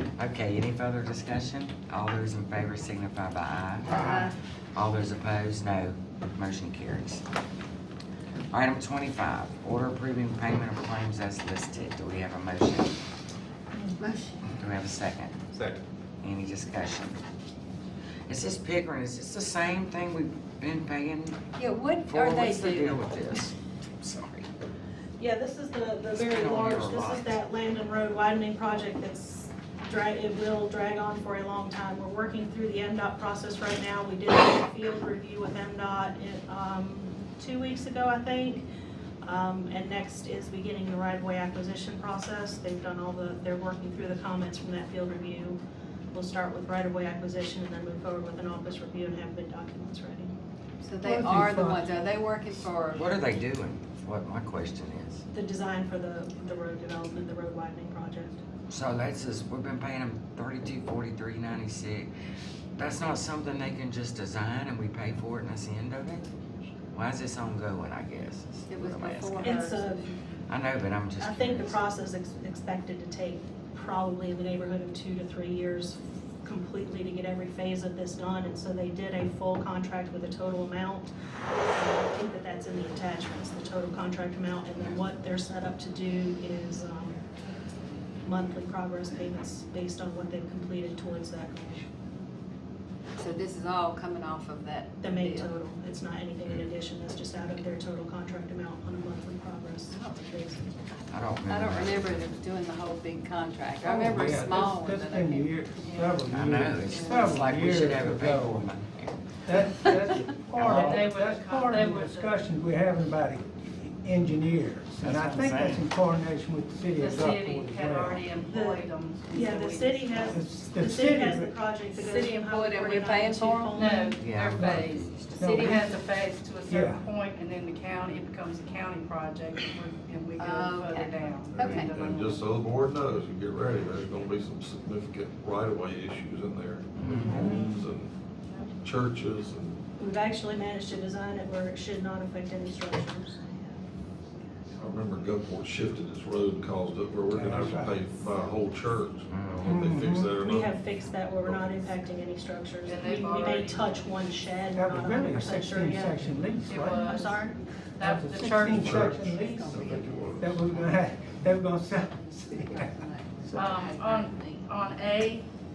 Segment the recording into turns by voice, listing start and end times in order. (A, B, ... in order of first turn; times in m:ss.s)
0:00.2-0:04.1 A
0:03.9-0:04.3 B
0:04.0-0:04.2 C
0:04.7-0:07.2 A
0:08.5-0:13.0 A
0:14.0-0:14.4 B
0:14.6-0:15.4 A
0:16.2-0:17.2 A
0:18.3-0:21.4 A
0:21.6-0:23.2 B
0:22.0-0:24.5 A
0:25.2-0:38.7 D
0:26.1-0:27.4 A
0:39.2-0:45.6 D
0:46.1-0:50.3 D
0:50.8-0:53.3 B
0:51.0-0:52.0 C
0:52.9-0:55.2 A
0:55.3-0:58.4 D
0:58.7-1:02.1 A
1:02.8-1:06.3 A
1:06.9-1:09.5 A
1:08.7-1:10.2 B
1:09.4-1:10.0 D
1:10.5-1:11.8 A
1:11.2-1:21.1 D
1:21.7-1:27.2 D
1:28.2-1:31.8 D
1:33.2-1:35.5 B
1:35.0-1:40.8 D
1:39.9-1:40.4 B
1:41.1-1:42.3 A
1:41.5-1:45.5 B
1:43.8-1:48.7 C
1:45.8-1:46.2 E
1:46.3-1:49.2 A
1:46.8-1:47.2 E
1:49.4-1:58.3 C
1:50.6-1:50.9 A
1:50.6-1:52.4 E
1:55.0-1:55.8 A
1:57.0-2:00.4 E
1:58.5-2:04.3 D
2:00.3-2:01.5 C
2:02.0-2:03.9 B
2:03.7-2:12.4 E
2:04.1-2:05.5 A
2:04.6-2:06.0 C
2:06.7-2:07.0 C
2:10.4-2:12.0 B
2:11.6-2:18.1 F
2:17.0-2:17.4 A
2:17.1-2:17.8 C
2:17.3-2:17.7 D
2:18.8-2:19.8 F
2:20.0-2:23.4 D
2:24.7-2:32.0 F
2:27.3-2:28.0 C
2:29.3-2:29.8 A
2:29.6-2:30.3 C
2:30.3-2:37.6 D
2:32.8-2:34.4 E
2:34.7-2:37.1 C
2:36.6-2:38.9 E
2:38.0-2:39.8 C
2:38.6-2:40.5 F
2:38.9-2:41.3 B
2:40.4-2:43.7 C
2:41.9-2:44.7 B
2:43.5-2:45.4 E